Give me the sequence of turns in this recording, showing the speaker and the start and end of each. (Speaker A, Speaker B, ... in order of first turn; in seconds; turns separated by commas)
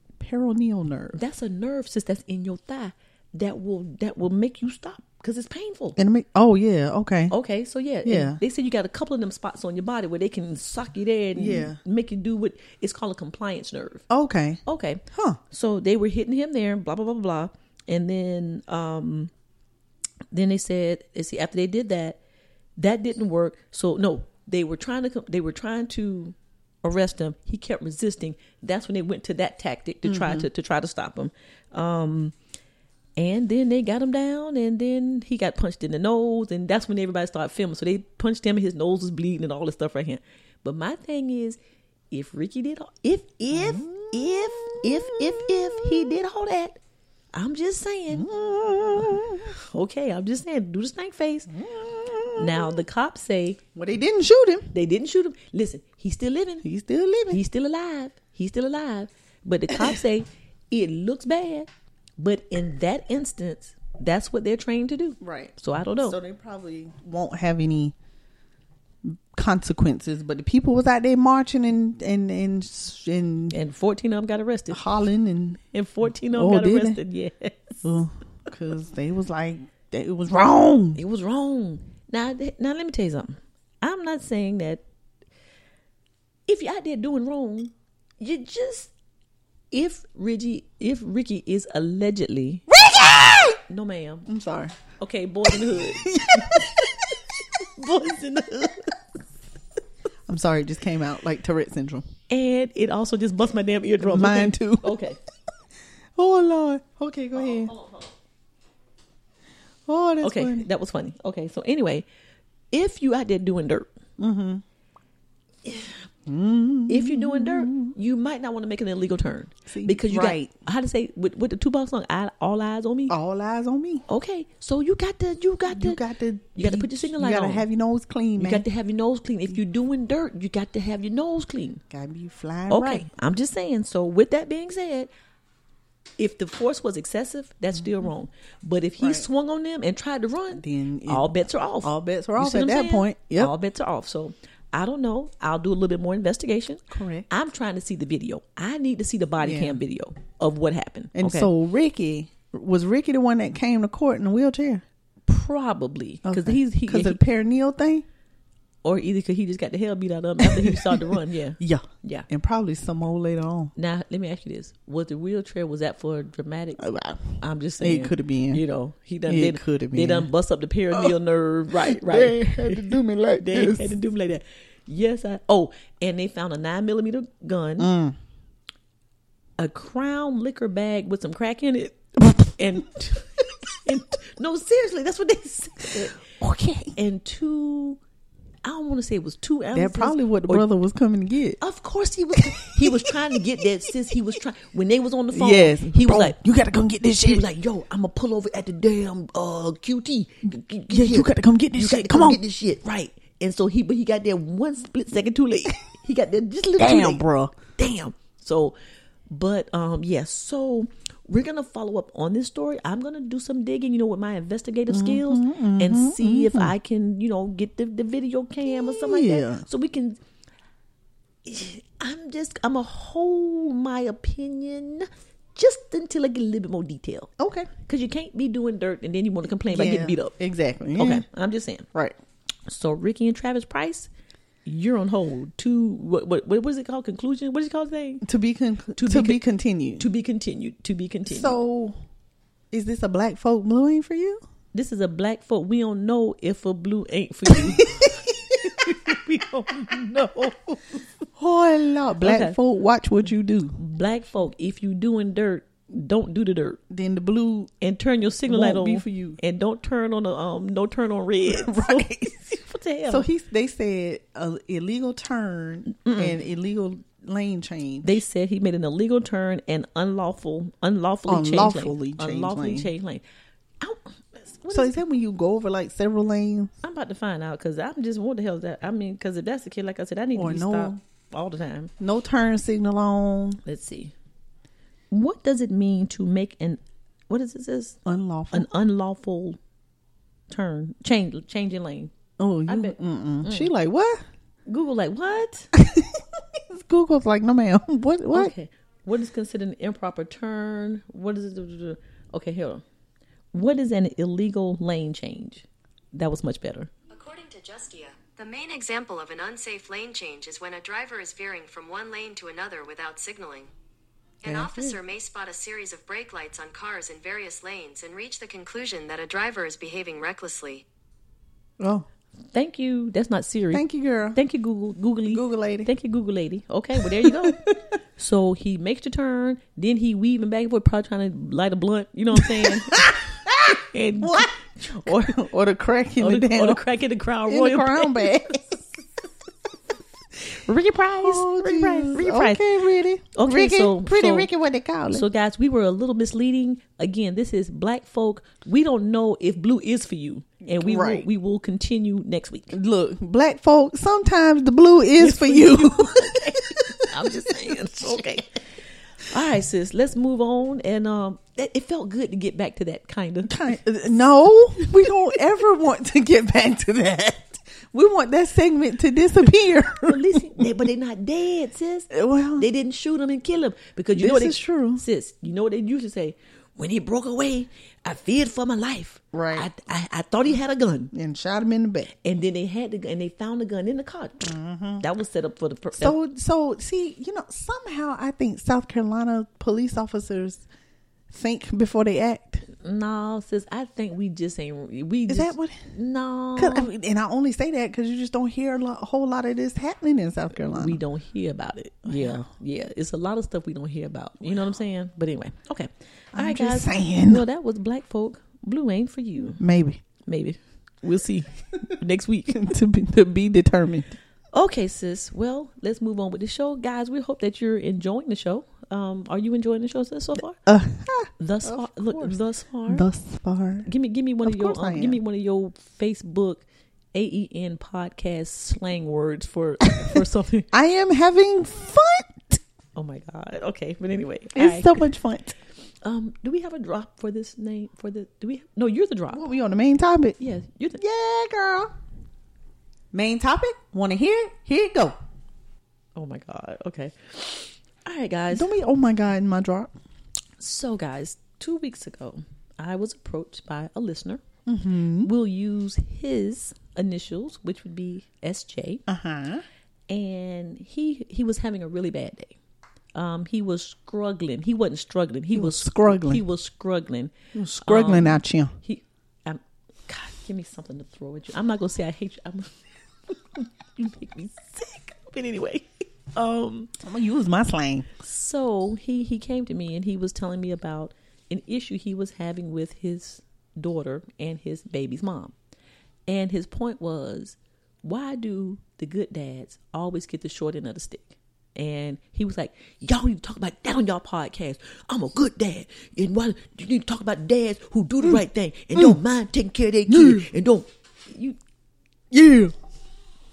Speaker A: 0.2-1.2, Speaker B: 1.1-6.0, Speaker A: 6.0-7.3, Speaker B: 7.3-14.0, Speaker A: 8.1-8.4, Speaker A: 11.4-11.8, Speaker A: 14.1-15.4, Speaker B: 14.7-19.3, Speaker B: 20.3-22.2, Speaker B: 22.8-32.4, Speaker A: 30.1-30.5, Speaker B: 33.2-41.6, Speaker B: 42.1-46.8, Speaker A: 43.5-46.1, Speaker B: 47.3-48.3, Speaker A: 48.1-49.5, Speaker B: 49.4-51.5, Speaker A: 51.5-52.8, Speaker B: 52.4-53.6, Speaker A: 53.8-54.7, Speaker B: 54.7-56.6, Speaker A: 56.6-57.4, Speaker B: 57.3-66.2, Speaker A: 59.7-60.0, Speaker A: 65.2-68.0, Speaker A: 69.0-73.6, Speaker B: 73.5-74.8, Speaker A: 74.7-75.6, Speaker B: 75.7-77.8, Speaker A: 76.3-77.0, Speaker A: 77.8-81.0, Speaker B: 81.0-84.8, Speaker B: 86.5-88.9, Speaker B: 89.7-92.7, Speaker A: 92.7-93.6, Speaker B: 93.6-94.3, Speaker A: 94.3-94.8, Speaker B: 95.0-97.0, Speaker A: 95.7-97.0, Speaker B: 97.6-99.0, Speaker A: 100.3-102.1, Speaker B: 102.3-105.2, Speaker A: 104.0-105.1, Speaker A: 106.2-107.7, Speaker B: 107.4-108.1, Speaker A: 109.9-110.7, Speaker B: 110.2-112.0, Speaker B: 112.7-113.9, Speaker A: 114.2-114.6, Speaker B: 115.7-116.1, Speaker A: 116.3-118.0, Speaker B: 116.9-123.2, Speaker A: 119.7-120.5, Speaker A: 123.1-124.0, Speaker B: 124.1-126.0, Speaker A: 125.7-128.7, Speaker B: 126.5-127.7, Speaker B: 128.4-131.8, Speaker A: 131.9-133.1, Speaker B: 132.7-135.1, Speaker B: 136.2-151.5, Speaker A: 139.0-139.3, Speaker A: 140.5-141.2, Speaker A: 141.8-143.5, Speaker A: 146.9-147.3, Speaker A: 149.4-149.8, Speaker A: 151.2-154.8, Speaker B: 155.3-157.2, Speaker A: 156.2-158.1, Speaker B: 158.8-162.3, Speaker A: 160.4-163.7, Speaker B: 163.8-166.9, Speaker A: 166.8-168.6, Speaker B: 167.4-177.9, Speaker A: 169.3-170.3, Speaker A: 171.7-174.0, Speaker A: 177.8-178.2, Speaker B: 179.6-186.2, Speaker A: 186.3-186.9, Speaker B: 187.0-188.0, Speaker B: 188.7-190.7, Speaker A: 189.7-191.6, Speaker B: 191.6-196.4, Speaker A: 192.3-193.0, Speaker A: 195.3-197.4, Speaker B: 197.2-207.2, Speaker A: 200.9-202.4, Speaker A: 206.8-207.6, Speaker B: 207.8-208.8, Speaker B: 209.3-220.2, Speaker A: 214.9-216.7, Speaker A: 218.7-219.7, Speaker B: 221.4-227.3, Speaker A: 227.4-227.7, Speaker B: 227.8-230.4, Speaker A: 229.7-231.2, Speaker B: 231.0-231.9, Speaker B: 232.7-234.1, Speaker B: 234.7-238.3, Speaker A: 238.2-240.1, Speaker B: 238.9-239.4, Speaker B: 240.0-241.6, Speaker A: 241.3-241.9, Speaker A: 242.7-244.4, Speaker B: 244.7-251.0, Speaker A: 247.5-249.2, Speaker A: 251.4-253.8, Speaker B: 252.2-252.6, Speaker B: 253.8-256.8, Speaker A: 256.9-257.7, Speaker B: 257.8-263.3, Speaker A: 258.5-259.4, Speaker A: 261.4-262.5, Speaker A: 263.1-268.2, Speaker B: 265.9-266.4, Speaker B: 268.0-273.2, Speaker A: 271.3-272.9, Speaker B: 273.8-275.0, Speaker A: 274.7-276.8, Speaker B: 276.8-281.9, Speaker A: 280.4-281.0, Speaker A: 282.0-283.6, Speaker B: 283.6-284.1, Speaker B: 285.1-288.0, Speaker A: 288.1-288.7, Speaker B: 288.5-289.6, Speaker B: 290.5-292.1, Speaker A: 292.4-294.2, Speaker B: 292.7-293.7, Speaker B: 294.7-295.7, Speaker A: 295.7-298.5, Speaker B: 298.3-302.8, Speaker B: 303.5-306.9, Speaker C: 307.1-313.7, Speaker C: 314.4-320.9, Speaker A: 314.4-315.0, Speaker A: 321.8-322.1, Speaker B: 322.5-327.6, Speaker A: 323.7-324.4, Speaker A: 325.3-325.9, Speaker A: 327.0-327.7, Speaker B: 328.2-335.4, Speaker A: 332.3-336.8, Speaker B: 336.2-338.6, Speaker A: 337.5-338.8, Speaker B: 340.5-342.7, Speaker A: 341.2-345.3, Speaker B: 343.3-344.5, Speaker B: 345.1-352.8, Speaker A: 350.8-351.3, Speaker A: 352.7-358.4, Speaker B: 355.2-358.6, Speaker B: 359.2-363.8, Speaker A: 363.5-370.7, Speaker B: 370.0-381.1, Speaker A: 372.1-372.7, Speaker A: 374.1-375.0, Speaker A: 379.3-379.7, Speaker A: 381.1-382.1, Speaker B: 382.1-386.2, Speaker A: 384.4-385.0, Speaker A: 386.0-390.6, Speaker A: 391.3-392.6, Speaker B: 392.8-396.9, Speaker A: 395.3-395.8, Speaker A: 396.6-401.0, Speaker B: 400.7-409.6, Speaker A: 402.1-402.4, Speaker A: 406.3-407.4, Speaker A: 409.6-410.0, Speaker B: 410.2-412.7, Speaker A: 412.5-414.1, Speaker B: 414.5-420.6, Speaker A: 420.7-423.9, Speaker B: 421.4-423.0, Speaker B: 423.9-430.7, Speaker A: 424.4-425.2, Speaker A: 430.0-430.2, Speaker A: 430.7-432.6, Speaker B: 432.9-435.1, Speaker A: 434.6-435.6, Speaker B: 436.0-439.4, Speaker A: 439.3-440.4, Speaker B: 440.4-441.0, Speaker A: 441.0-441.9, Speaker A: 443.1-445.2, Speaker B: 446.1-448.7, Speaker A: 448.5-449.9, Speaker B: 450.6-454.4, Speaker A: 454.7-455.3, Speaker B: 455.2-459.0, Speaker A: 459.1-459.6, Speaker B: 460.1-462.6, Speaker B: 463.1-472.7, Speaker A: 465.5-466.4, Speaker A: 467.5-468.8, Speaker B: 473.3-476.9, Speaker A: 477.0-478.1, Speaker B: 478.2-485.5, Speaker B: 486.3-501.6, Speaker A: 500.1-500.5, Speaker A: 502.3-502.7